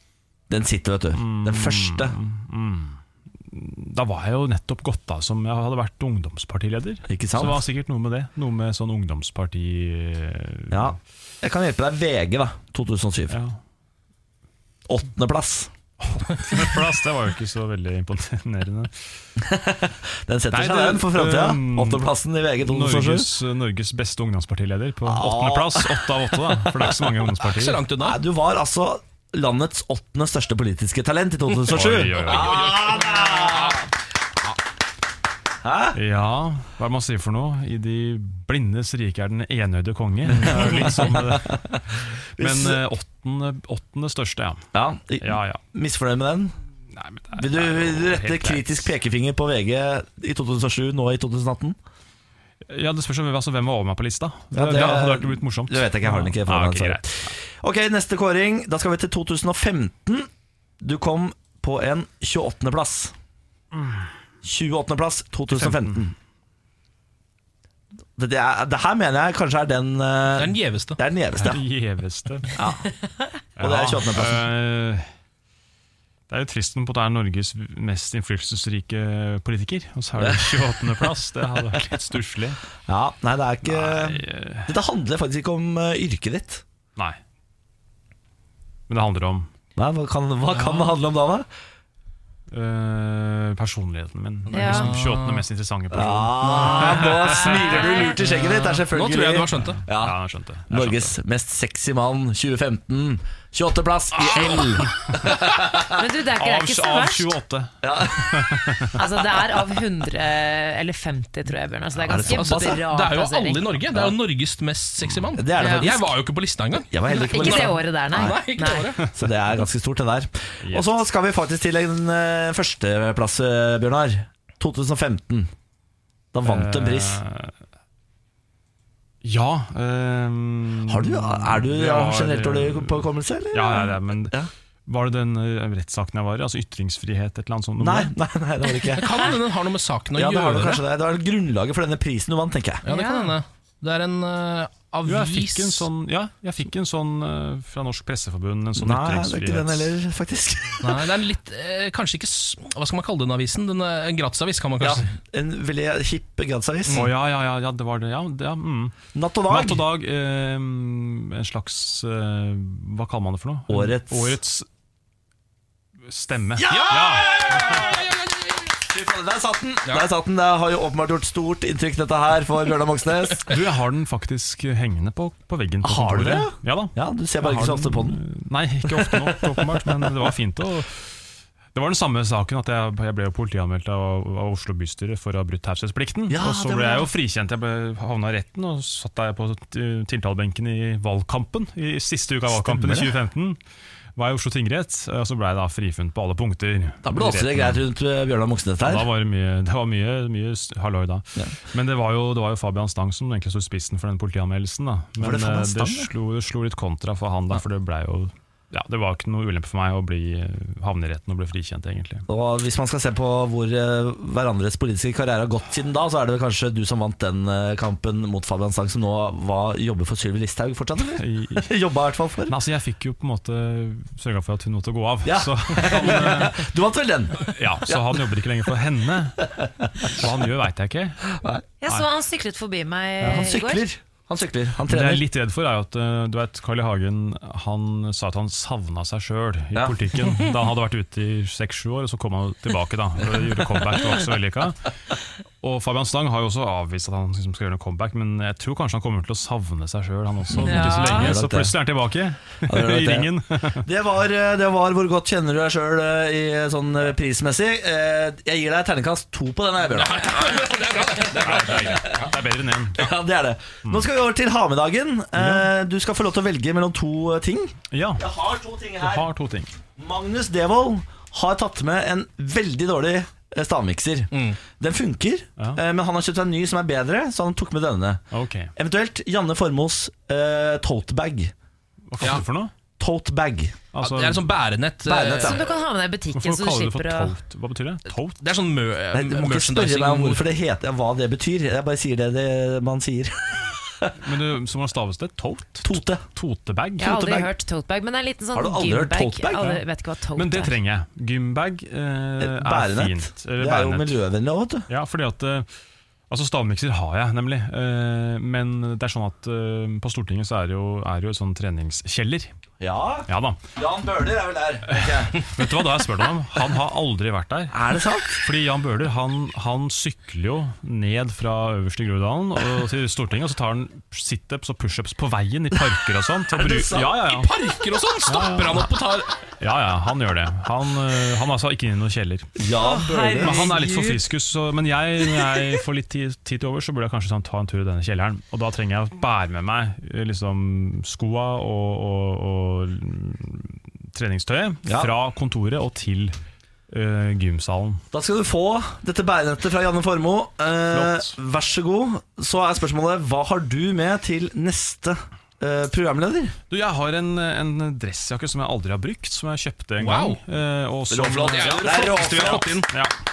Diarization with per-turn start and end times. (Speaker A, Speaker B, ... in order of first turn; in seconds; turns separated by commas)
Speaker A: 0.5-2.1, Speaker B: 1.1-3.0, Speaker B: 3.5-10.9, Speaker A: 7.1-7.6, Speaker A: 10.7-13.4, Speaker B: 13.3-13.6, Speaker A: 14.9-15.7, Speaker B: 16.0-18.9, Speaker A: 19.4-23.3, Speaker B: 20.5-22.1, Speaker B: 22.6-27.8, Speaker A: 25.1-26.9, Speaker C: 27.4-28.2, Speaker A: 28.0-33.8, Speaker B: 31.6-32.8, Speaker C: 32.2-33.9, Speaker A: 35.6-36.0, Speaker B: 35.9-44.6, Speaker A: 40.3-41.8, Speaker A: 42.4-42.8, Speaker A: 44.7-46.5, Speaker B: 45.2-45.6, Speaker B: 46.9-48.9, Speaker A: 47.4-51.8, Speaker B: 52.7-57.3, Speaker A: 54.5-60.3, Speaker A: 60.8-63.1, Speaker B: 63.7-64.1, Speaker A: 64.4-66.1, Speaker B: 65.5-66.1, Speaker A: 68.2-71.6, Speaker C: 70.3-71.0, Speaker B: 71.3-72.6, Speaker A: 72.5-72.9, Speaker B: 73.6-75.1, Speaker A: 73.6-74.4, Speaker B: 76.3-82.6, Speaker A: 80.2-80.5, Speaker A: 82.8-86.6, Speaker B: 83.6-84.7, Speaker B: 88.9-89.5, Speaker A: 89.8-91.5, Speaker C: 90.5-90.9, Speaker B: 92.5-98.3, Speaker C: 94.5-95.4, Speaker D: 94.5-94.9, Speaker A: 95.9-100.2, Speaker D: 97.2-98.1, Speaker C: 98.3-99.8, Speaker B: 99.7-101.2, Speaker A: 100.7-105.9, Speaker B: 104.3-105.2, Speaker D: 105.9-107.4, Speaker B: 106.3-109.0, Speaker A: 107.8-108.7, Speaker D: 108.9-113.7, Speaker A: 112.1-112.8, Speaker C: 112.2-119.0, Speaker A: 115.3-116.1, Speaker D: 115.6-115.9, Speaker A: 116.9-118.3, Speaker D: 117.1-118.9, Speaker A: 119.1-125.5, Speaker B: 120.6-121.0, Speaker A: 126.3-127.2, Speaker B: 126.4-127.5, Speaker B: 129.2-138.1, Speaker A: 130.9-134.5, Speaker A: 137.8-139.3, Speaker C: 138.9-140.8, Speaker A: 140.1-142.8, Speaker C: 142.8-145.9, Speaker D: 142.8-143.4, Speaker B: 145.1-149.9, Speaker A: 148.8-151.0, Speaker C: 150.8-155.1, Speaker A: 154.8-157.1, Speaker B: 156.9-164.7, Speaker A: 159.1-159.8, Speaker A: 163.7-164.4, Speaker B: 166.1-167.9, Speaker A: 166.6-168.0, Speaker C: 166.7-168.7, Speaker A: 168.9-173.5, Speaker B: 173.4-193.6, Speaker A: 175.8-178.2, Speaker A: 186.3-187.1, Speaker A: 192.5-193.1, Speaker B: 194.2-197.8, Speaker A: 197.0-199.1, Speaker B: 198.8-212.2, Speaker A: 205.2-206.1, Speaker A: 212.3-222.5, Speaker B: 221.1-221.7, Speaker B: 222.4-226.7, Speaker A: 225.2-228.1, Speaker B: 227.4-229.5, Speaker A: 229.6-230.2, Speaker B: 230.0-231.2, Speaker A: 231.3-231.6, Speaker D: 231.8-233.8, Speaker B: 233.2-233.5, Speaker A: 233.2-235.2, Speaker B: 234.8-244.9, Speaker B: 245.6-253.8, Speaker A: 250.5-251.7, Speaker D: 250.6-251.3, Speaker A: 252.7-262.2, Speaker C: 259.9-262.3, Speaker B: 261.2-263.1, Speaker A: 262.9-269.3, Speaker B: 265.3-265.7, Speaker B: 267.9-268.2, Speaker B: 269.0-269.7, Speaker A: 269.9-278.2, Speaker C: 274.3-274.6, Speaker B: 278.3-278.7, Speaker A: 278.8-281.5, Speaker B: 282.1-282.7, Speaker C: 282.2-282.4, Speaker A: 283.0-283.8, Speaker B: 283.9-284.5, Speaker C: 284.0-285.6, Speaker A: 285.0-285.7, Speaker D: 285.4-287.4, Speaker B: 286.3-288.4, Speaker C: 288.4-290.4, Speaker A: 289.1-294.1, Speaker B: 294.2-297.2, Speaker A: 295.8-296.2, Speaker D: 297.0-300.7, Speaker A: 297.0-297.5, Speaker A: 298.5-299.7, Speaker B: 300.3-304.3, Speaker A: 302.4-304.9, Speaker B: 304.9-305.7, Speaker B: 306.3-312.5, Speaker A: 312.8-315.4, Speaker B: 313.3-313.6, Speaker B: 314.9-327.5, Speaker A: 317.7-318.4, Speaker A: 326.5-327.1, Speaker C: 327.1-329.3, Speaker B: 328.3-328.9, Speaker B: 329.6-332.5, Speaker A: 332.6-333.6, Speaker D: 332.8-334.3, Speaker B: 333.4-346.4, Speaker B: 346.9-348.0, Speaker A: 348.1-356.6, Speaker B: 350.9-351.4, Speaker B: 356.7-363.1, Speaker C: 360.0-360.4, Speaker A: 361.1-362.8, Speaker C: 361.4-362.9